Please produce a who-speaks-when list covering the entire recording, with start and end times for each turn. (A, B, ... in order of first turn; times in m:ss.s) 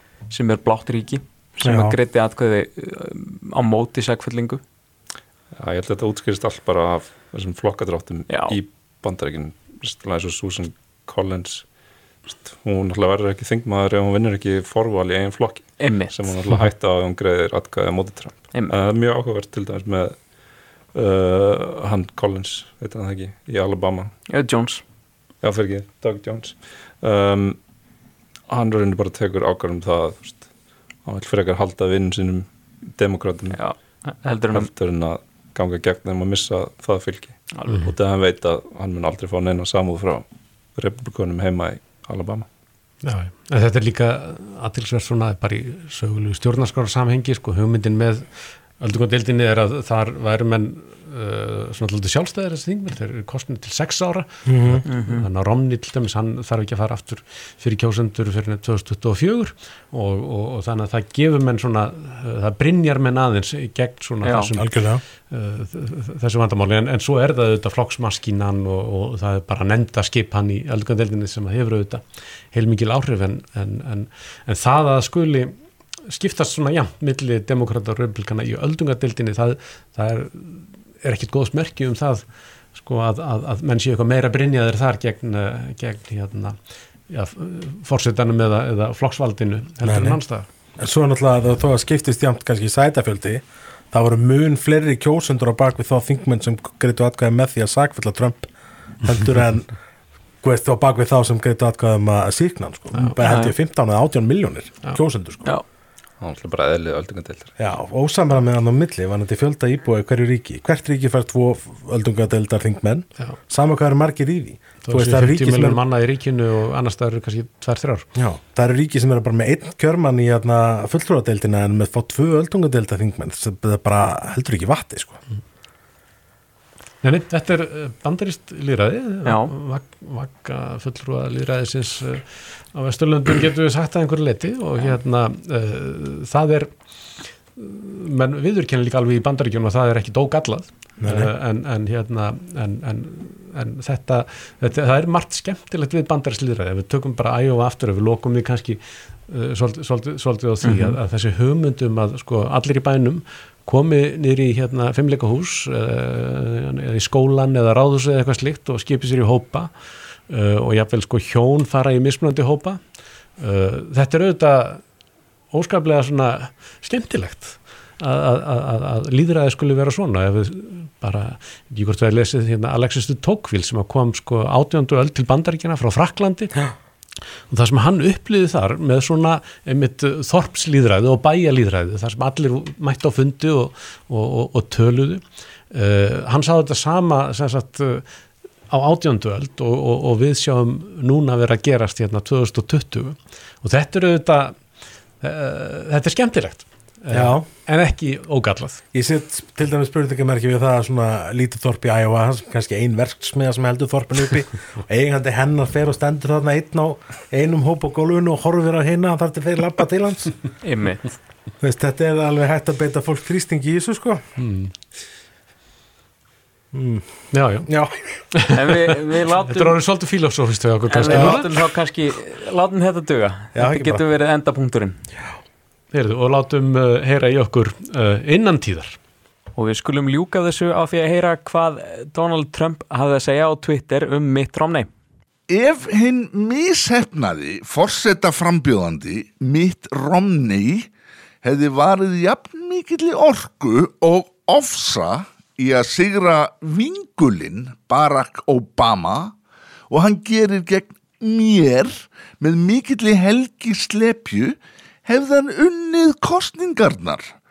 0:00.3-0:04.6 A
0:01.6-0:02.0 B
0:05.6-0:11.6 C
0:08.3-0:08.6 A
0:12.3-0:20.1 C
0:15.8-0:16.3 A
0:20.9-0:24.1 C
0:24.3-0:24.8 A
0:25.4-0:27.6 C
0:28.5-0:30.5 C
0:31.0-0:33.6 C
0:33.5-0:34.7 A
0:34.5-0:40.2 C
0:40.8-0:42.4 C
0:43.0-1:15.5 D
0:54.4-0:54.8 B
0:54.8-0:55.2 A
1:04.2-1:04.5 A
1:04.6-1:05.0 B
1:16.0-1:26.6 D
1:27.1-1:30.5 D
1:29.8-1:30.2 B
1:30.8-1:38.5 B
1:39.0-1:39.7 B
1:40.4-1:45.5 B
1:43.2-1:43.5 A
1:46.2-1:47.5 C
1:47.6-1:55.8 B
1:54.8-1:58.1 D
1:58.1-2:05.2 B
2:07.0-2:39.7 D
2:09.2-2:09.5 A
2:21.0-2:21.3 B
2:30.6-2:31.0 A
2:40.3-2:42.8 D
2:43.4-2:44.8 D
2:45.5-2:56.7 D
2:57.5-3:08.0 D
3:08.7-3:18.8 D
3:17.1-3:17.5 B
3:18.9-3:30.4 B
3:30.6-3:31.1 A
3:31.6-3:34.3 B
3:34.4-3:34.7 D
3:36.7-3:38.2 B
3:37.3-3:37.7 D
3:38.3-3:38.8 D
3:38.5-3:39.8 A
3:39.5-3:41.5 D
3:40.9-3:45.0 A
3:41.1-3:41.4 B
3:43.5-3:44.0 B
3:45.9-3:49.0 D
3:49.6-3:54.9 A
3:55.5-4:00.9 E
4:01.4-4:09.4 E
4:09.9-4:17.3 E